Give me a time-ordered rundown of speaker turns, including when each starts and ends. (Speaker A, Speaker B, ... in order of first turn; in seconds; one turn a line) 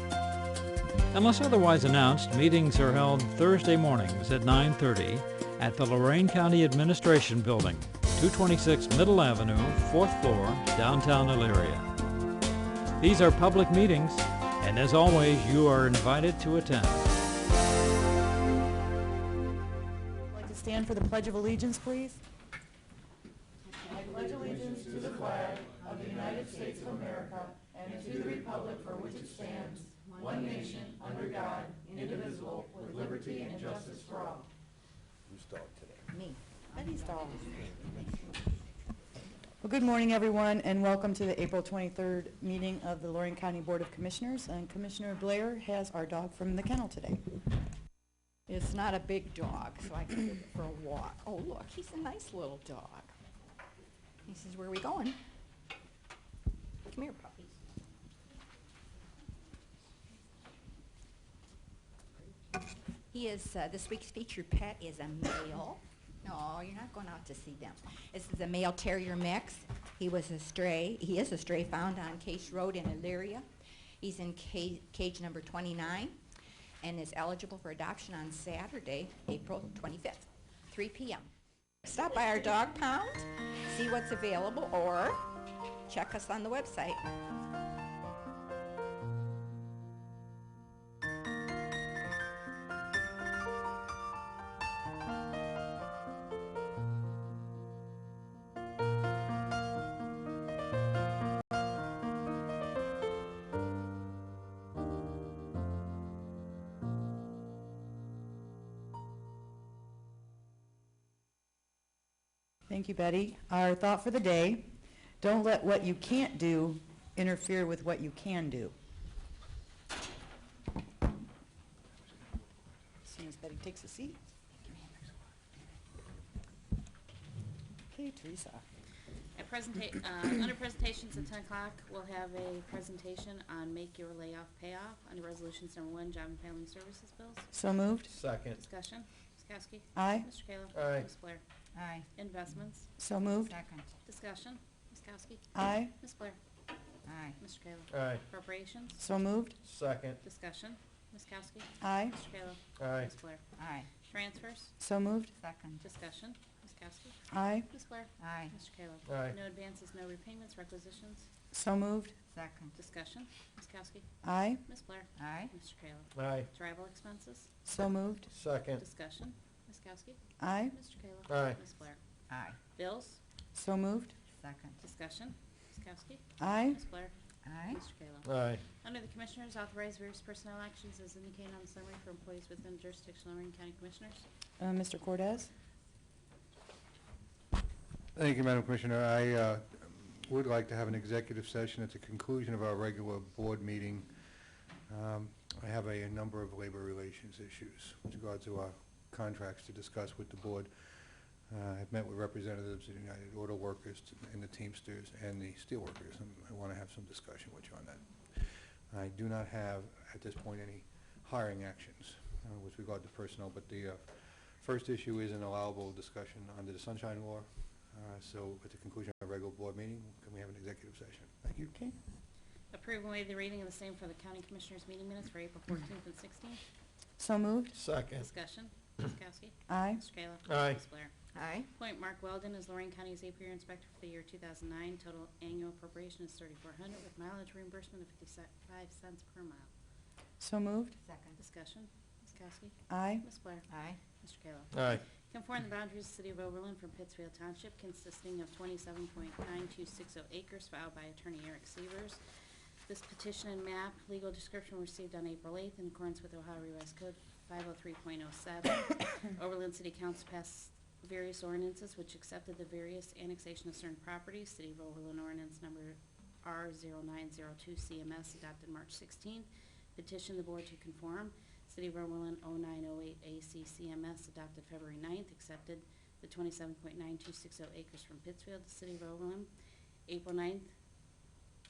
Speaker A: 1.1-11.8
Speaker A: 13.0-17.1
Speaker B: 20.3-22.2
Speaker B: 23.9-34.5
Speaker C: 35.9-37.8
Speaker B: 36.7-37.6
Speaker B: 39.6-47.2
Speaker C: 48.5-53.1
Speaker C: 54.2-55.2
Speaker C: 56.9-57.6
Speaker C: 63.1-73.5
Speaker C: 74.0-76.2
Speaker C: 76.8-81.3
Speaker C: 81.8-85.2
Speaker C: 85.9-87.1
Speaker B: 112.7-114.6
Speaker B: 115.2-118.7
Speaker B: 123.0-124.2
Speaker B: 127.9-128.6
Speaker D: 129.4-137.5
Speaker B: 137.5-138.1
Speaker E: 138.1-138.6
Speaker D: 138.5-141.4
Speaker B: 139.9-140.3
Speaker E: 140.7-141.1
Speaker C: 141.7-142.1
Speaker D: 142.2-142.9
Speaker B: 143.0-143.6
Speaker C: 143.5-143.9
Speaker D: 144.1-145.4
Speaker B: 145.6-145.9
Speaker D: 146.0-146.4
Speaker C: 147.1-147.4
Speaker D: 147.4-149.0
Speaker E: 147.9-148.2
Speaker B: 149.0-149.6
Speaker E: 149.6-150.2
Speaker D: 150.2-153.4
Speaker B: 151.8-152.2
Speaker E: 152.8-153.1
Speaker C: 153.6-153.9
Speaker D: 154.1-154.7
Speaker B: 154.8-155.3
Speaker C: 155.3-155.8
Speaker D: 155.8-157.2
Speaker B: 157.3-157.7
Speaker D: 157.7-161.3
Speaker C: 158.2-158.6
Speaker E: 159.1-159.4
Speaker B: 161.5-162.2
Speaker C: 162.3-162.8
Speaker D: 162.8-164.1
Speaker B: 164.2-164.6
Speaker D: 164.7-167.5
Speaker C: 165.2-165.5
Speaker E: 166.2-166.5
Speaker B: 167.7-168.3
Speaker E: 168.3-168.8
Speaker D: 168.8-170.2
Speaker B: 170.4-170.8
Speaker D: 170.7-172.0
Speaker E: 171.3-171.6
Speaker C: 172.3-172.6
Speaker D: 172.8-173.2
Speaker B: 173.5-174.2
Speaker C: 174.3-174.8
Speaker D: 174.8-177.1
Speaker B: 176.4-176.8
Speaker C: 177.4-177.8
Speaker D: 177.7-184.2
Speaker E: 178.2-178.6
Speaker B: 184.6-185.5
Speaker F: 188.2-194.2
Speaker F: 194.9-200.9
Speaker F: 201.5-221.7
Speaker B: 221.7-221.9
Speaker D: 222.7-226.6
Speaker B: 227.2-227.8
Speaker E: 227.7-228.2
Speaker D: 228.1-231.1
Speaker B: 229.7-230.1
Speaker E: 230.5-230.8
Speaker C: 231.3-231.7
Speaker D: 231.7-239.7
Speaker B: 240.4-241.0
Speaker C: 241.0-241.4
Speaker D: 241.4-243.7
Speaker B: 242.9-243.2
Speaker C: 243.7-244.0
Speaker D: 244.2-252.2
Speaker E: 244.7-245.0
Speaker D: 252.9-279.5
Speaker D: 280.1-280.7